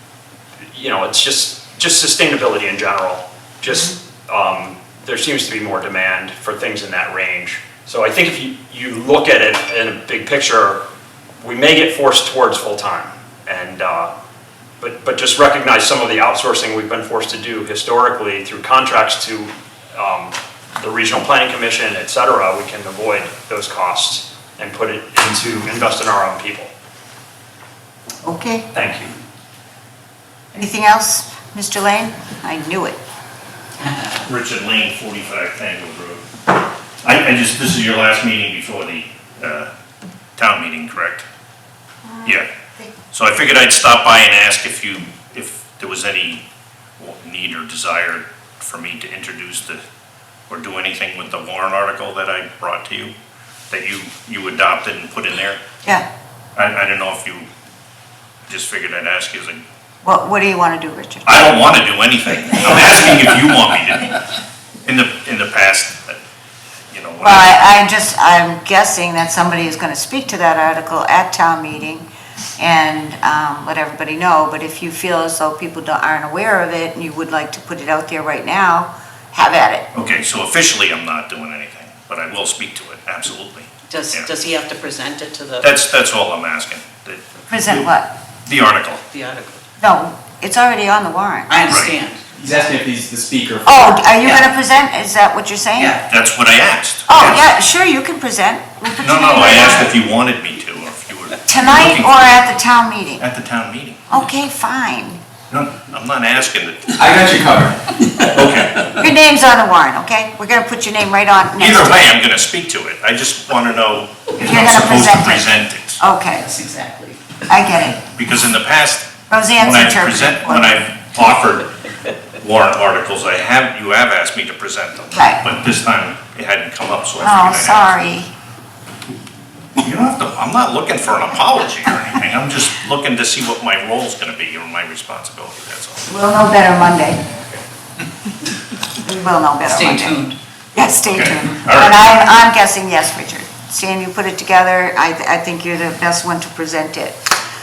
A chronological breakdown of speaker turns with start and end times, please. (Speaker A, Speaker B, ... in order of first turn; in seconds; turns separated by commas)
Speaker A: 0.7-10.8, Speaker A: 11.4-14.1, Speaker A: 14.8-26.7, Speaker B: 28.2-28.6, Speaker A: 28.7-29.1, Speaker B: 30.5-33.0, Speaker C: 34.2-36.3, Speaker C: 37.0-39.7, Speaker C: 40.4-41.2, Speaker B: 42.0-42.9, Speaker C: 43.1-46.4, Speaker C: 47.0-49.8, Speaker C: 50.5-53.1, Speaker C: 53.7-55.6, Speaker C: 56.5-57.5, Speaker C: 58.5-59.6, Speaker B: 60.0-61.5, Speaker C: 61.3-64.2, Speaker C: 64.8-66.2, Speaker C: 66.9-67.6, Speaker B: 67.2-72.1, Speaker B: 72.6-79.9, Speaker C: 79.9-84.3, Speaker D: 83.9-85.7, Speaker C: 85.6-87.9, Speaker B: 87.5-88.1, Speaker C: 88.5-89.0, Speaker D: 89.1-89.6, Speaker B: 89.8-91.6, Speaker D: 91.5-92.2, Speaker C: 91.7-91.9, Speaker E: 92.3-93.9, Speaker B: 93.7-96.0, Speaker D: 95.8-96.0, Speaker C: 96.1-97.4, Speaker B: 97.1-99.9, Speaker C: 99.0-102.4, Speaker B: 101.5-103.2, Speaker C: 103.2-104.1, Speaker B: 104.1-105.2, Speaker C: 105.5-107.1, Speaker E: 107.0-108.9, Speaker C: 108.3-109.0, Speaker B: 109.0-111.9, Speaker C: 111.6-116.0, Speaker B: 114.4-116.5, Speaker D: 116.3-117.2, Speaker B: 117.5-118.0, Speaker C: 118.1-121.7, Speaker B: 119.3-120.8, Speaker C: 122.4-127.9, Speaker B: 125.1-125.4, Speaker B: 127.2-128.3, Speaker C: 129.8-136.1, Speaker B: 136.1-137.2, Speaker B: 139.0-147.2, Speaker D: 139.7-140.3, Speaker C: 141.1-142.1